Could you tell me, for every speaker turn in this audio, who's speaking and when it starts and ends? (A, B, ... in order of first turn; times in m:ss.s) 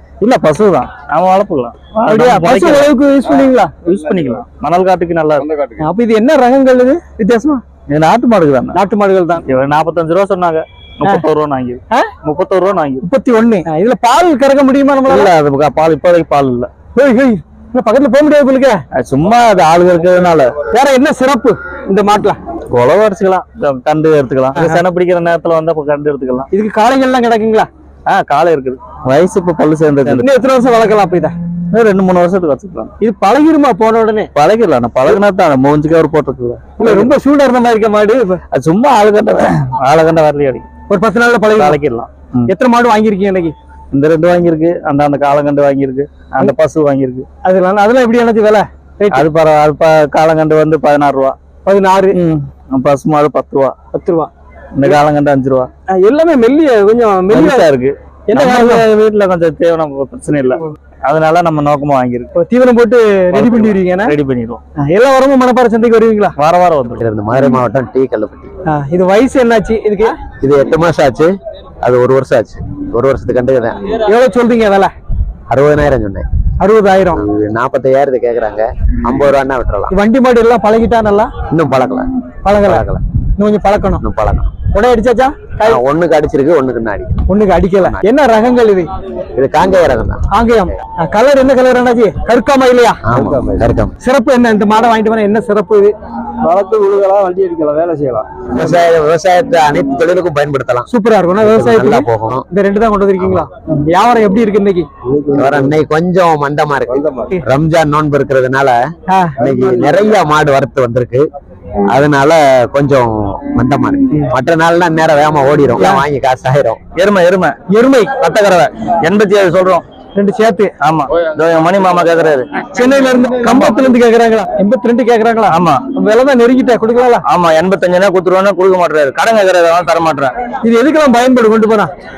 0:00.2-0:02.9 A
0:02.0-0:03.7 B
0:03.8-0:05.5 A
0:05.8-0:07.6 B
0:07.9-0:08.8 A
0:08.7-0:09.4 B
0:09.5-0:13.1 A
0:13.1-0:15.3 B
0:15.0-0:16.7 A
0:16.9-0:18.8 B
0:18.9-0:20.5 A
0:20.7-0:22.4 B
0:22.7-0:26.5 A
0:24.5-0:24.8 B
0:26.5-0:27.7 B
0:28.1-0:30.3 A
0:30.1-0:31.4 B
0:31.7-0:32.9 A
0:33.0-0:34.3 B
0:34.3-0:37.1 A
0:36.8-0:38.4 B
0:38.5-0:40.7 A
0:40.9-0:41.8 B
0:41.5-0:42.5 A
0:42.5-0:43.5 B
0:43.9-0:47.2 A
0:47.4-0:49.2 B
0:49.1-0:51.4 A
0:51.6-0:52.2 B
0:52.1-0:53.7 A
0:53.9-0:54.3 B
0:54.7-0:55.7 A
0:55.9-0:57.7 B
0:57.3-1:02.3 A
0:58.3-0:58.8 B
1:02.3-1:04.1 B
1:03.3-1:04.6 A
1:04.8-1:06.3 B
1:06.4-1:07.0 A
1:06.9-1:08.5 C
1:08.7-1:10.1 B
1:10.4-1:13.8 C
1:14.0-1:14.9 B
1:15.5-1:16.2 C
1:16.6-1:17.2 B
1:17.1-1:20.0 C
1:19.9-1:21.3 B
1:21.5-1:23.0 C
1:22.4-1:22.8 B
1:23.4-1:24.0 B
1:24.0-1:24.5 C
1:24.7-1:25.8 B
1:25.6-1:27.2 C
1:27.3-1:28.9 B
1:27.8-1:28.0 C
1:29.4-1:30.4 C
1:30.3-1:33.0 B
1:33.1-1:33.9 C
1:34.0-1:35.9 B
1:36.4-1:38.1 A
1:38.5-1:42.4 C
1:40.9-1:44.9 B
1:45.3-1:48.8 C
1:49.1-1:49.3 B
1:49.4-1:51.3 C
1:51.9-1:56.8 C
1:57.0-1:57.6 A
1:57.7-1:58.2 B
1:58.2-1:59.8 A
2:00.1-2:00.7 B
2:00.8-2:02.4 A
2:02.7-2:07.2 B
2:03.4-2:03.8 A
2:05.5-2:05.8 A
2:07.2-2:10.3 A
2:10.6-2:11.9 B